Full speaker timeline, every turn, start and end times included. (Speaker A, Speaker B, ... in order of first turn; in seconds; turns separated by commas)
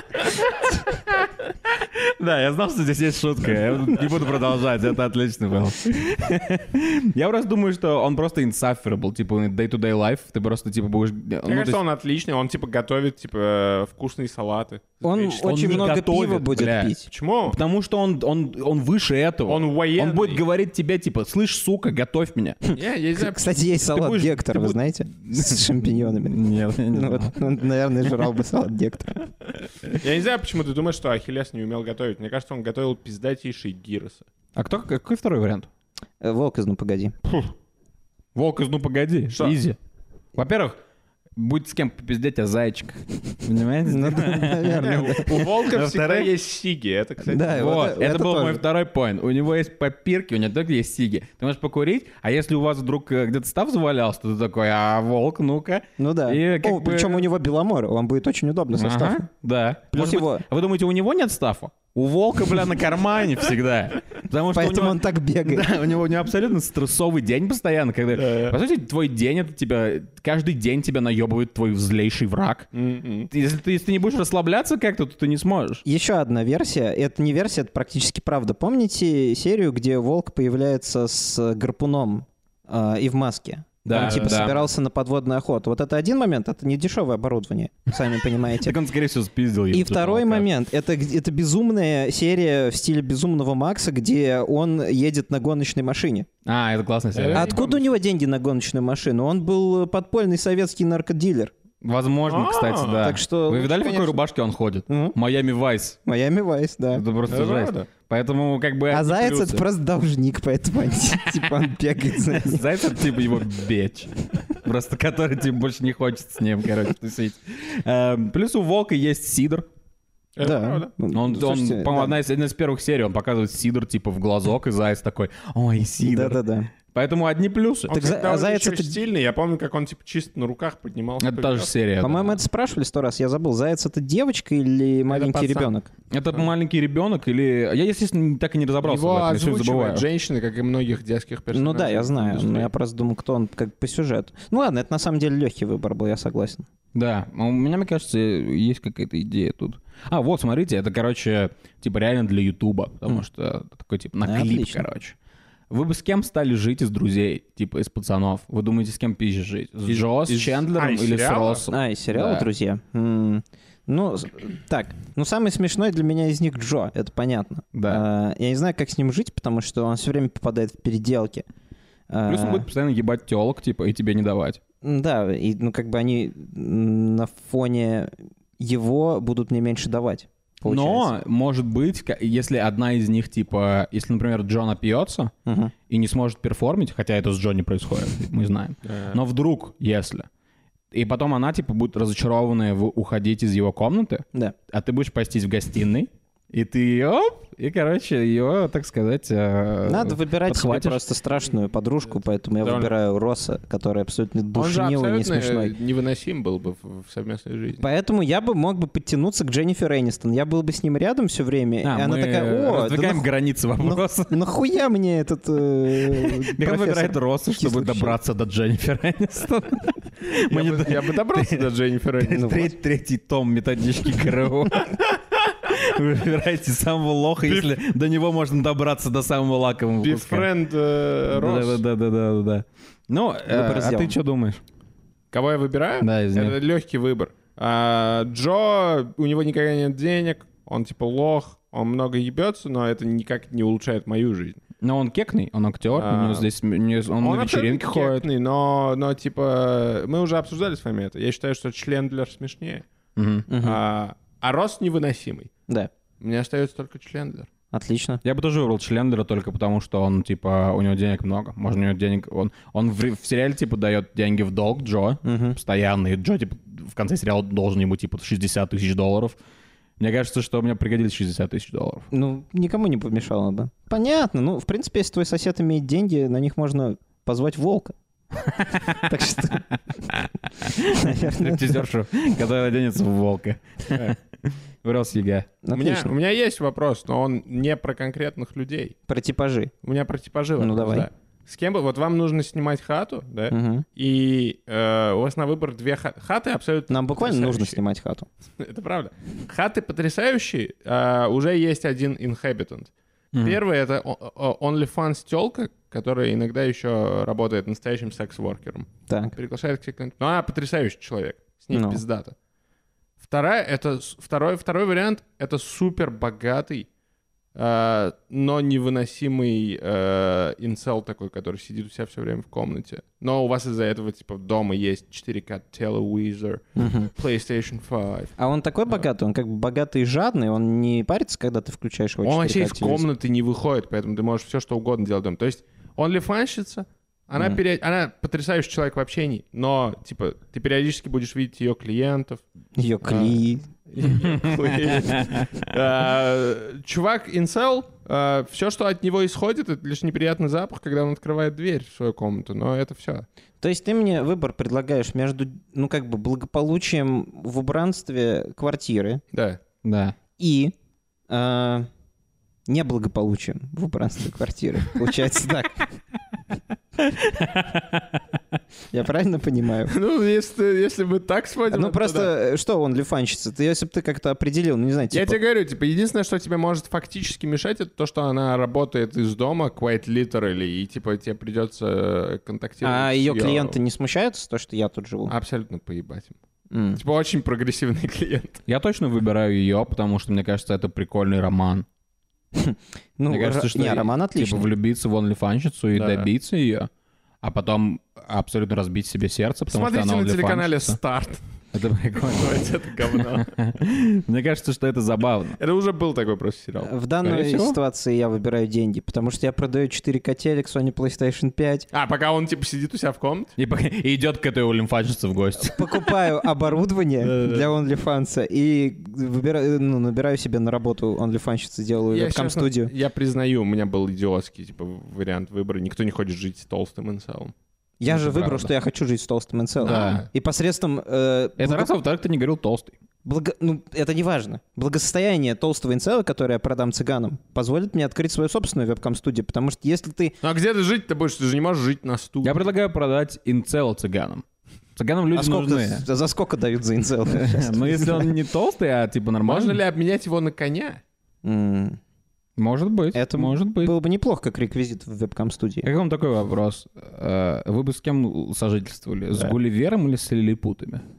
Speaker A: 1.8-11.8, Speaker B: 11.5-15.0, Speaker C: 15.0-17.1, Speaker A: 15.1-16.9, Speaker B: 17.1-17.6, Speaker A: 17.5-22.6, Speaker B: 19.5-20.4, Speaker B: 22.7-23.5, Speaker C: 23.1-29.3, Speaker A: 23.9-27.4, Speaker B: 29.9-34.2, Speaker A: 34.5-35.7, Speaker C: 36.2-37.1, Speaker A: 38.3-39.8, Speaker B: 39.3-39.6, Speaker A: 40.3-40.8, Speaker A: 41.4-46.3, Speaker C: 43.9-45.2, Speaker B: 44.8-47.9, Speaker C: 47.3-48.6, Speaker A: 47.5-57.2, Speaker C: 56.0-59.2, Speaker A: 58.7-72.7, Speaker C: 59.9-60.4, Speaker C: 64.5-65.7, Speaker B: 68.2-68.5, Speaker B: 72.7-73.3, Speaker A: 73.3-75.8, Speaker C: 75.8-88.8, Speaker A: 83.8-84.6, Speaker A: 88.6-90.5, Speaker C: 89.7-96.3, Speaker A: 96.4-97.6, Speaker B: 97.1-97.9, Speaker C: 97.3-101.5, Speaker A: 101.8-106.0, Speaker B: 102.3-103.1, Speaker C: 103.0-104.2, Speaker C: 104.9-105.2, Speaker C: 106.0-107.0, Speaker A: 106.9-109.6, Speaker B: 107.3-107.9, Speaker C: 108.9-112.7, Speaker A: 112.3-119.7, Speaker B: 120.3-120.9, Speaker C: 120.4-122.2, Speaker A: 121.1-128.0, Speaker C: 126.0-126.7, Speaker B: 127.9-131.7, Speaker C: 127.9-129.0, Speaker A: 131.2-132.4, Speaker C: 132.0-135.9, Speaker B: 135.1-135.7, Speaker A: 136.1-140.0, Speaker B: 138.8-142.7, Speaker C: 141.5-146.7, Speaker A: 146.9-155.2, Speaker C: 154.2-154.8, Speaker A: 155.7-162.5, Speaker B: 159.8-161.7, Speaker C: 161.7-171.4, Speaker A: 167.7-168.0, Speaker C: 172.1-172.7, Speaker A: 172.3-174.6, Speaker C: 174.8-181.1, Speaker A: 180.7-185.3, Speaker C: 185.4-185.7, Speaker A: 185.9-190.3, Speaker B: 188.8-189.2, Speaker A: 190.9-201.0, Speaker C: 199.8-205.7, Speaker B: 202.6-202.9, Speaker B: 204.5-207.8, Speaker C: 207.8-218.2, Speaker A: 211.8-214.3, Speaker A: 216.1-221.7, Speaker B: 220.3-222.7, Speaker A: 222.2-225.0, Speaker A: 225.6-230.5, Speaker B: 227.4-227.7, Speaker B: 230.0-231.8, Speaker A: 231.3-234.6, Speaker C: 233.5-234.2, Speaker B: 235.3-244.6, Speaker A: 236.0-236.6, Speaker A: 244.8-248.2, Speaker B: 245.9-246.5, Speaker B: 247.2-252.8, Speaker A: 253.2-253.5, Speaker C: 253.5-253.8, Speaker B: 253.5-255.5, Speaker B: 256.2-257.5, Speaker C: 257.7-258.2, Speaker A: 258.2-269.4, Speaker C: 265.2-265.6, Speaker A: 270.0-272.1, Speaker C: 272.1-277.9, Speaker A: 278.4-279.1, Speaker C: 278.9-279.6, Speaker A: 280.1-285.5, Speaker C: 280.9-281.8, Speaker C: 285.6-286.1, Speaker B: 285.7-288.9, Speaker C: 289.1-289.7, Speaker B: 289.8-297.8, Speaker C: 290.6-291.1, Speaker C: 293.5-293.8, Speaker C: 296.9-298.3, Speaker B: 298.6-312.3, Speaker C: 309.1-309.3, Speaker C: 311.7-312.0, Speaker B: 313.2-316.9, Speaker B: 317.5-328.4, Speaker C: 326.8-327.1, Speaker C: 328.4-333.1, Speaker B: 332.2-342.4, Speaker C: 342.8-343.7, Speaker B: 343.1-343.4, Speaker B: 343.9-353.2, Speaker A: 344.2-345.5, Speaker C: 353.6-359.2, Speaker B: 359.3-359.6, Speaker A: 359.8-360.2, Speaker C: 360.4-360.7, Speaker C: 361.3-361.9, Speaker C: 362.7-365.9, Speaker A: 367.0-368.4, Speaker C: 368.9-369.9, Speaker B: 369.9-372.3, Speaker C: 371.7-375.4, Speaker B: 375.1-383.8, Speaker C: 382.8-385.3, Speaker B: 385.3-386.4, Speaker C: 386.7-387.0, Speaker B: 386.9-388.6, Speaker A: 388.7-391.9, Speaker C: 392.5-394.7, Speaker A: 393.3-396.9, Speaker B: 395.9-396.3, Speaker A: 397.4-401.0, Speaker B: 399.7-401.4, Speaker A: 401.7-405.6, Speaker B: 402.2-403.5, Speaker B: 405.6-406.9, Speaker C: 406.8-411.9, Speaker A: 407.2-407.8, Speaker B: 411.9-413.5, Speaker A: 413.6-416.1, Speaker C: 415.6-422.9, Speaker B: 417.2-417.7, Speaker B: 422.1-427.5, Speaker C: 428.0-431.9, Speaker A: 428.1-428.7, Speaker B: 429.8-430.3, Speaker A: 429.8-430.3, Speaker A: 431.6-433.0, Speaker C: 433.2-440.3, Speaker B: 440.4-442.6, Speaker A: 442.4-444.4, Speaker A: 444.9-446.1, Speaker C: 445.3-448.3, Speaker A: 447.3-449.8, Speaker B: 449.4-451.0, Speaker C: 451.4-452.0, Speaker A: 452.6-453.9, Speaker C: 453.1-455.9, Speaker A: 455.8-461.0